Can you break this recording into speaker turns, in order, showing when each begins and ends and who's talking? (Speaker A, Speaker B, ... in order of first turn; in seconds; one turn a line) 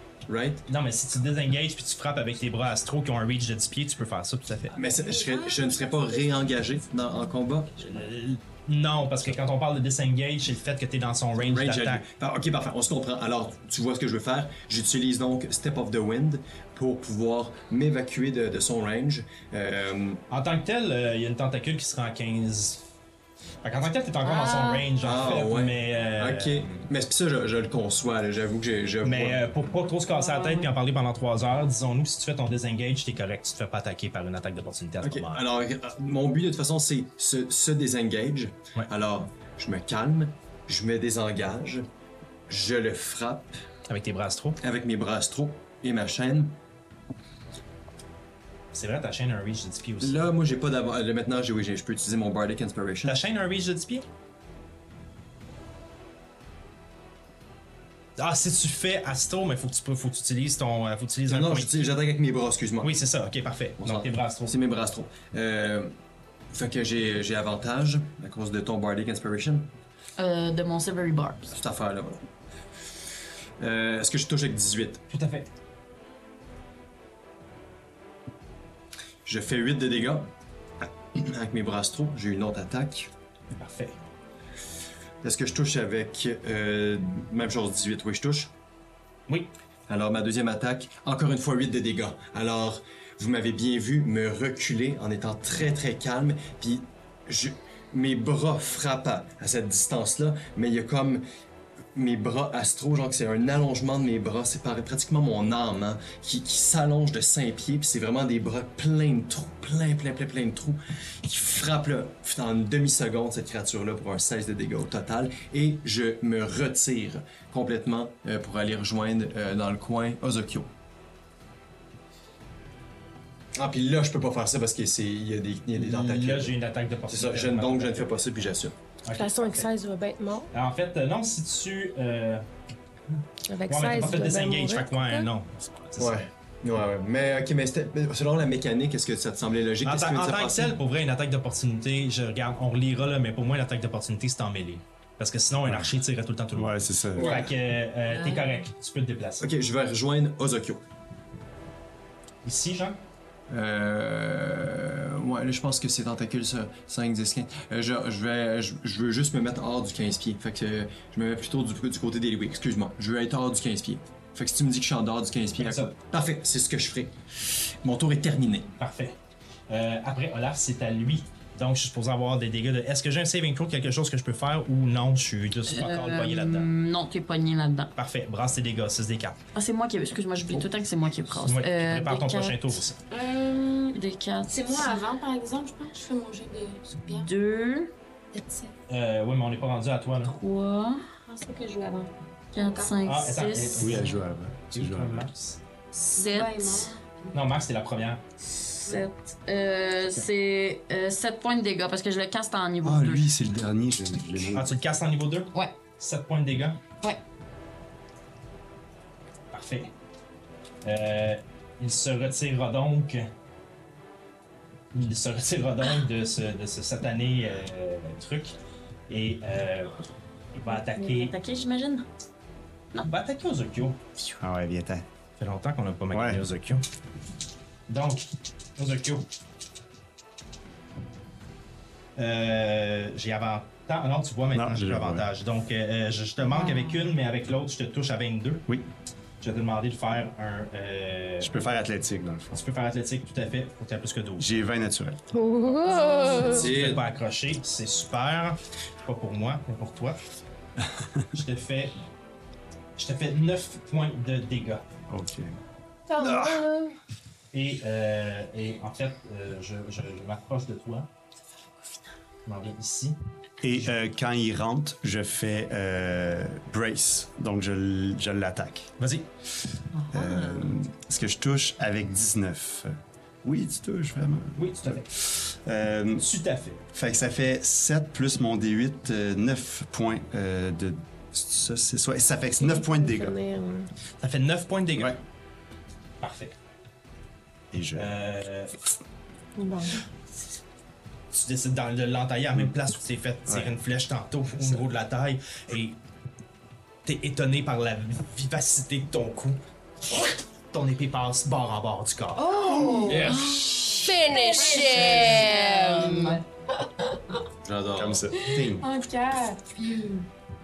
Speaker A: 0.3-0.7
Speaker B: 0.7-4.8
Speaker A: 4.7-8.0
Speaker C: 5.0-6.4
Speaker B: 7.8-12.0
Speaker A: 11.3-20.2
Speaker B: 20.3-22.8
Speaker B: 23.6-26.8
Speaker D: 24.3-24.7
Speaker C: 24.3-24.8
Speaker A: 25.0-29.4
Speaker B: 29.0-35.4
Speaker C: 30.1-30.6
Speaker A: 35.0-41.9
Speaker A: 42.5-43.5
Speaker B: 43.9-44.6
Speaker A: 44.6-46.5
Speaker B: 48.7-50.3
Speaker A: 50.0-53.2
Speaker B: 53.0-54.1
Speaker B: 58.2-61.7
Speaker A: 61.3-63.0
Speaker B: 62.8-64.5
Speaker A: 63.8-65.9
Speaker A: 66.5-69.7
Speaker D: 70.2-71.5
Speaker A: 71.5-72.3
Speaker A: 73.6-75.0
Speaker B: 75.1-75.5
Speaker A: 79.2-80.3
Speaker A: 80.8-83.1
Speaker B: 83.5-84.0
Speaker A: 85.2-88.5
Speaker A: 89.9-101.2
Speaker A: 101.9-120.7
Speaker A: 123.5-126.5
Speaker B: 125.8-128.5
Speaker A: 127.1-128.7
Speaker B: 129.0-129.7
Speaker E: 129.1-130.5
Speaker B: 130.5-132.4
Speaker E: 133.5-135.3
Speaker B: 133.7-136.3
Speaker A: 136.0-140.8
Speaker B: 139.8-149.5
Speaker F: 145.7-145.9
Speaker F: 146.5-147.4
Speaker A: 147.1-147.5
Speaker C: 148.1-148.4
Speaker A: 149.4-150.8
Speaker B: 152.4-153.0
Speaker A: 153.5-168.7
Speaker B: 165.6-165.9
Speaker B: 168.8-169.2
Speaker B: 169.7-176.7
Speaker D: 175.7-177.9
Speaker B: 177.9-179.4
Speaker D: 179.5-182.8
Speaker B: 181.4-183.0
Speaker C: 183.1-187.3
Speaker D: 183.9-184.9
Speaker D: 187.1-187.9
Speaker C: 188.3-188.7
Speaker B: 188.9-190.3
Speaker D: 190.2-191.0
Speaker C: 191.2-193.1
Speaker D: 192.5-194.0
Speaker B: 193.0-195.6
Speaker F: 193.8-195.3
Speaker D: 195.9-196.9
Speaker C: 196.1-197.3
Speaker B: 197.3-198.2
Speaker D: 198.8-203.3
Speaker F: 202.8-204.8
Speaker B: 204.5-206.8
Speaker B: 209.5-209.9
Speaker B: 210.8-213.3
Speaker B: 214.9-218.5
Speaker B: 219.1-219.9
Speaker B: 220.5-221.3
Speaker D: 220.7-222.0
Speaker B: 223.0-224.0
Speaker F: 224.4-225.0
Speaker B: 225.4-226.8
Speaker F: 226.1-226.4
Speaker B: 227.9-228.2
Speaker B: 228.8-229.2
Speaker B: 232.2-238.7
Speaker F: 234.5-235.3
Speaker C: 236.6-236.9
Speaker B: 239.4-241.6
Speaker F: 241.4-242.6
Speaker B: 242.5-244.5
Speaker F: 244.4-245.2
Speaker E: 245.3-246.7
Speaker A: 246.4-247.0
Speaker B: 246.4-250.2
Speaker F: 250.8-251.2
Speaker B: 251.3-252.0
Speaker B: 253.0-254.8
Speaker F: 255.1-255.5
Speaker E: 256.1-257.0
Speaker F: 256.2-256.6
Speaker B: 257.5-261.1
Speaker B: 262.4-263.2
Speaker F: 263.6-268.9
Speaker B: 269.0-269.3
Speaker C: 269.9-270.7
Speaker F: 270.1-276.3
Speaker B: 274.6-275.1
Speaker B: 276.2-276.8
Speaker F: 276.9-283.4
Speaker E: 282.6-283.9
Speaker B: 284.2-285.2
Speaker B: 286.2-286.6
Speaker F: 287.7-288.1
Speaker B: 287.9-288.7
Speaker E: 289.6-290.0
Speaker B: 291.3-296.0
Speaker F: 293.4-293.8
Speaker F: 294.6-294.8
Speaker B: 297.0-299.6
Speaker B: 300.1-302.6
Speaker C: 302.4-303.7
Speaker A: 303.0-303.6
Speaker D: 303.3-303.9
Speaker E: 304.0-306.4
Speaker C: 304.3-307.4
Speaker D: 304.7-305.0
Speaker A: 307.6-308.3
Speaker F: 307.9-308.9
Speaker C: 308.3-310.2